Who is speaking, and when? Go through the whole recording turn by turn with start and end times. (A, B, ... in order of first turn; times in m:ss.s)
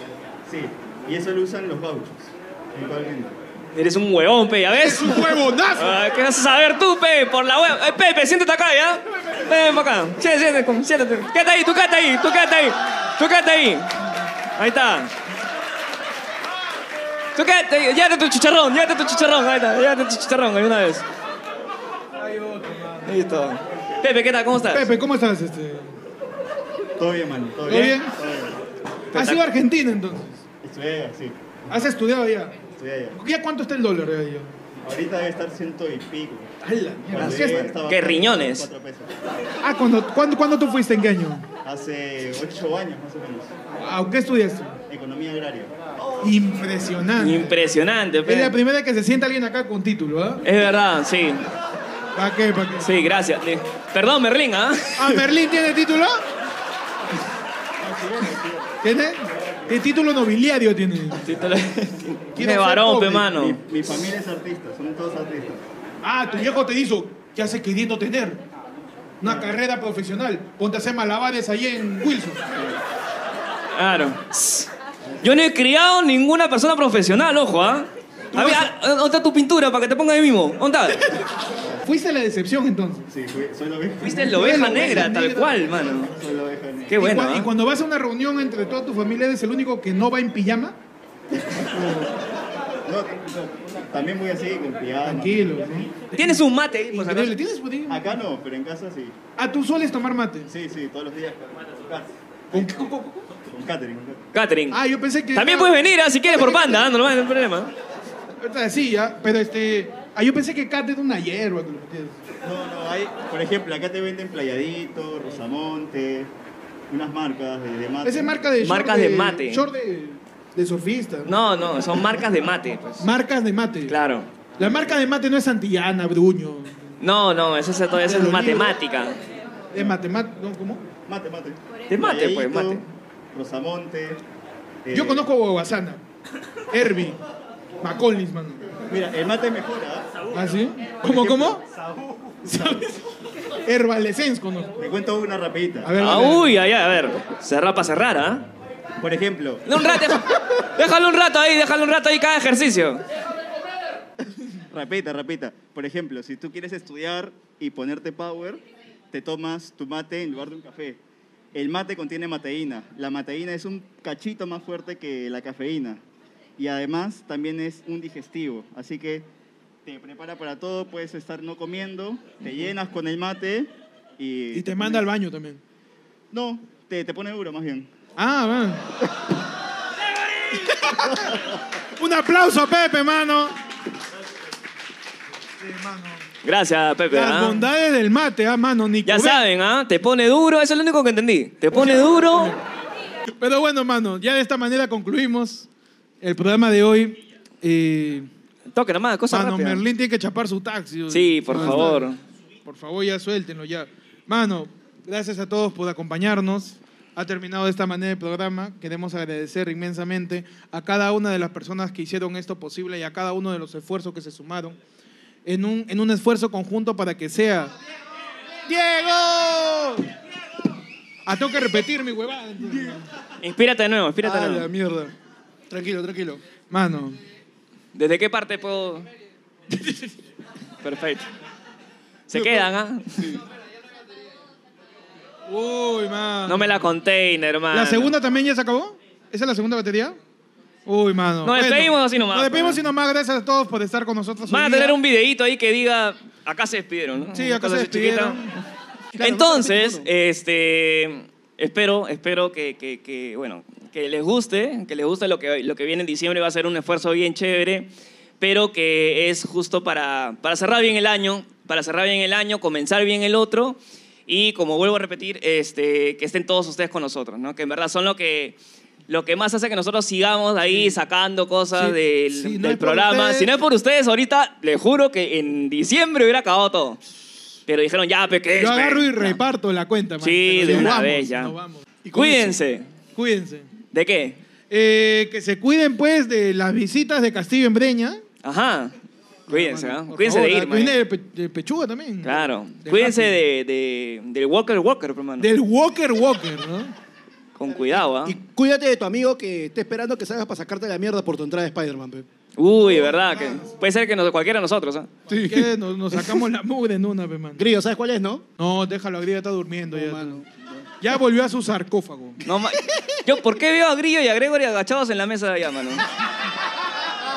0:00.5-0:03.4 A
0:03.7-0:15.1 B
0:04.8-0:06.0 C
0:17.4-0:21.0 B
0:22.2-0:23.2 C
0:23.1-0:24.9 B
0:24.7-0:25.9 C
0:27.0-0:28.6 A
0:27.7-0:28.2 C
0:29.1-0:29.4 B
0:29.1-0:30.4 C
0:30.6-0:31.4 A
0:31.7-0:32.6 C
0:32.8-0:33.2 A
0:33.1-0:34.5 C
0:34.8-0:36.5 A
0:36.6-0:37.6 C
0:37.1-0:37.7 D
0:37.1-0:39.1 A
0:37.3-0:38.7 B
0:39.6-0:41.5 C
0:41.6-0:43.5 A
0:43.8-0:44.8 C
0:44.9-0:45.7 A
0:46.2-0:47.6 C
0:47.2-0:48.5 B
0:48.3-0:50.4 C
0:50.4-0:51.5 B
0:52.2-0:52.9 C
0:52.8-0:55.2 B
0:55.0-0:56.2 C
0:57.8-0:58.7 A
0:58.8-1:01.3 C
1:01.2-1:03.6 B
1:02.4-1:03.4 C
1:03.3-1:05.6 A
1:06.0-1:08.4 C
1:09.2-1:12.4 C
1:13.8-1:14.7 B
1:15.2-1:21.2 B
1:18.3-1:18.7 C
1:21.8-1:23.1 C
1:23.1-1:24.6 A
1:24.0-1:26.1 B
1:24.1-1:25.6 C
1:26.2-1:26.9 A
1:26.9-1:27.5 B
1:27.0-1:30.8 C
1:31.4-1:32.1 A
1:32.8-1:35.7 A
1:35.0-1:38.0 C
1:36.2-1:37.4 B
1:37.9-1:39.1 A
1:39.4-1:40.5 C
1:40.5-1:42.7 A
1:42.5-1:43.3 C
1:43.5-1:44.2 A
1:44.3-1:44.8 B
1:44.7-1:46.8 C
1:45.3-1:47.7 B
1:48.4-1:52.2 C
1:52.4-1:56.3 A
1:56.9-1:58.4 A
1:58.0-2:01.3 C
1:58.6-1:59.7 B
2:01.2-2:03.1 B
2:03.0-2:04.0 C
2:03.9-2:04.3 B
2:04.6-2:06.9 C
2:07.0-2:09.2 B
2:08.0-2:08.8 C
2:09.7-2:10.8 C
2:11.1-2:14.2 A
2:11.9-2:12.8 B
2:14.8-2:15.2 A
2:14.9-2:16.0 C
2:16.7-2:17.2 C
2:17.8-2:18.7 C
2:18.9-2:20.2 A
2:20.3-2:21.6 C
2:21.1-2:21.6 A
2:22.3-2:22.7 A
2:22.4-2:23.0 C
2:23.6-2:24.7 C
2:24.8-2:25.9 A
2:25.8-2:26.6 C
2:26.0-2:28.4 B
2:29.0-2:29.8 A
2:29.7-2:33.0 B
2:34.7-2:41.0 A
2:41.5-2:46.0 A
2:46.6-2:49.3 A
2:49.8-2:55.0 A
2:54.5-2:55.6 C
2:56.3-2:57.9 A
2:58.2-2:58.9 C
3:00.5-3:03.6 C
3:05.6-3:06.3 C
3:06.4-3:07.7 B
3:07.1-3:09.4 C
3:09.1-3:12.6 B
3:11.7-3:12.6 C
3:13.4-3:15.7 C
3:16.2-3:18.3 C
3:18.7-3:19.8 B
3:19.3-3:22.1 C
3:21.1-3:22.2 B
3:21.5-3:22.0 D
3:22.6-3:34.8 C
3:35.4-3:37.7 C
3:38.7-3:40.0 D
3:41.2-3:43.0 C
3:42.7-3:43.0 D
3:43.4-3:44.7 B
3:44.2-3:45.1 D
3:45.7-3:46.4 D
3:46.7-3:47.2 C
3:48.0-3:49.1 B
3:50.8-3:51.3 B
3:52.3-3:53.4 B
3:52.3-3:52.6 D
3:55.5-3:56.9 C
3:56.5-3:58.1 B
3:57.7-4:00.2 C
4:00.9-4:05.0 C
4:01.4-4:02.8 B
4:04.5-4:08.5 B
4:07.3-4:08.6 C
4:09.2-4:10.1 D
4:09.2-4:28.6 B
4:29.1-4:37.0 B
4:30.6-4:31.0 C
4:31.7-4:33.5 C
4:37.7-4:39.4 B
4:38.6-4:42.5 C
4:40.2-4:41.5 B
4:40.6-4:41.0 D
4:42.1-4:42.8 B
4:43.2-4:43.7 C
4:43.9-4:44.4 B
4:44.7-4:48.2 C
4:48.4-4:48.9 B
4:49.5-4:51.0 B
4:49.5-4:53.4 C
4:52.2-4:55.5 B
4:55.4-4:56.9 C
4:57.6-4:58.4 B
4:57.9-5:02.3 D
5:02.6-5:05.1 B
5:05.3-5:05.7 D
5:05.4-5:07.7 C
5:07.6-5:08.4 D
5:08.6-5:10.4 C
5:09.9-5:10.6 D
5:11.0-5:12.4 C
5:12.4-5:16.1 B